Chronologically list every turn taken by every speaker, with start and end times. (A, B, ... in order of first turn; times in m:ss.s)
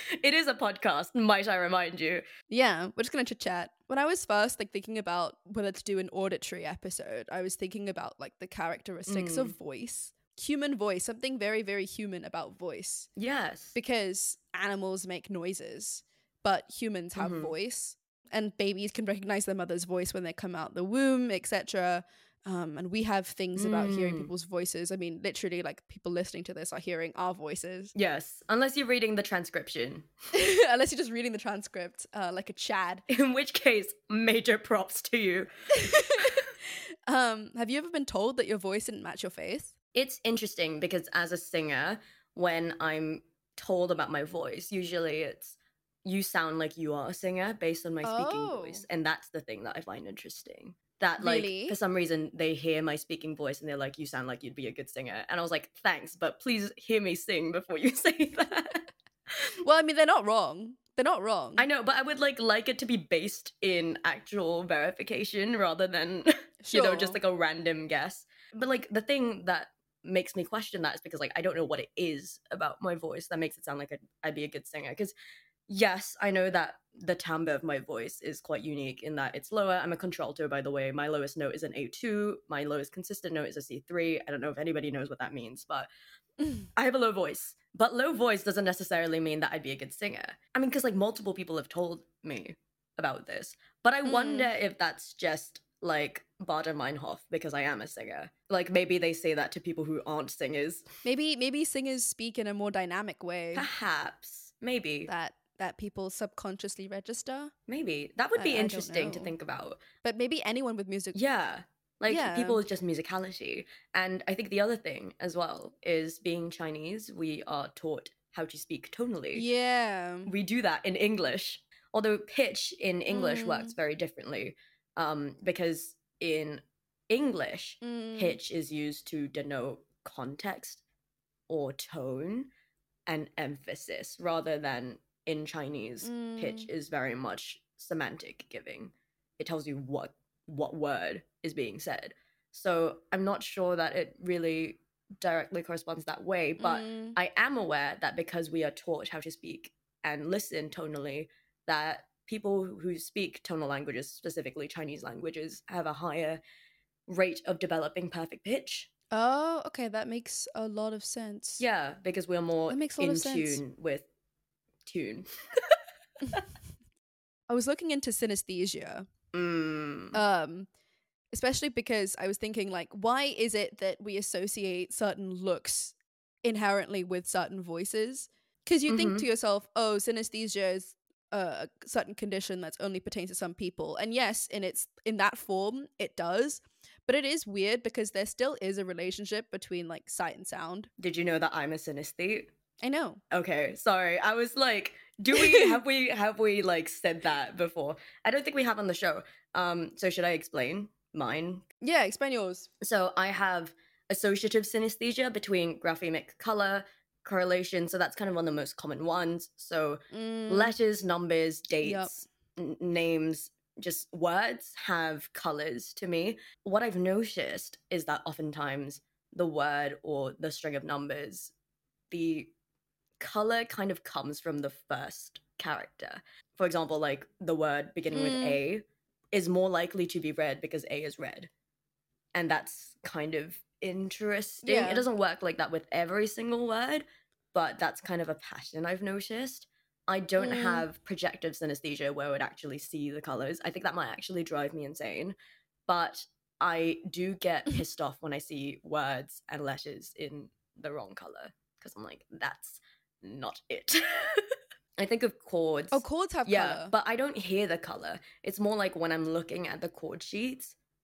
0:00.2-0:02.2 A
0:02.5-0:13.1 B
0:09.1-0:09.5 A
0:13.2-0:13.8 A
0:13.8-0:27.9 B
0:17.2-0:17.5 A
0:23.6-0:24.3 A
0:27.9-0:30.1 A
0:30.3-0:33.0 B
0:33.1-0:35.5 A
0:35.8-0:36.4 B
0:37.1-0:39.8 B
0:39.9-0:58.9 A
0:48.0-0:48.8 B
0:51.2-0:51.8 B
0:59.6-1:01.6 B
1:01.6-1:15.1 A
1:06.6-1:07.2 B
1:15.7-1:25.9 A
1:26.4-1:26.7 B
1:26.8-1:40.9 A
1:34.1-1:34.5 B
1:41.0-1:43.7 B
1:43.6-1:45.1 A
1:45.1-1:47.5 B
1:47.7-1:49.8 A
1:48.4-1:49.3 B
1:50.0-1:51.2 B
1:51.1-1:59.4 A
1:52.1-1:52.6 B
1:59.3-2:00.3 B
2:00.2-2:10.8 A
2:03.1-2:03.7 B
2:07.8-2:08.4 B
2:11.5-2:12.5 A
2:13.1-2:36.4 A
2:16.0-2:16.7 B
2:26.6-2:27.2 B
2:37.1-2:38.9 A
2:39.1-2:41.6 B
2:41.6-2:44.1 A
2:42.7-2:43.6 B
2:44.8-2:45.8 A
2:47.5-2:49.1 B
2:49.3-2:50.2 A
2:50.1-2:50.7 B
2:51.3-3:10.9 B
2:58.9-2:59.2 A
3:11.0-3:12.5 A
3:12.8-3:13.2 B
3:13.3-3:21.6 A
3:15.3-3:15.8 B
3:21.8-3:22.7 B
3:22.8-3:41.5 A
3:30.1-3:30.8 B
3:31.8-3:32.2 B
3:42.1-3:42.5 A
3:43.2-3:51.5 A
3:48.1-3:48.6 B
3:52.3-4:05.3 A
3:54.6-3:55.1 B
4:00.4-4:00.9 B
4:05.9-4:20.8 A
4:15.9-4:16.9 B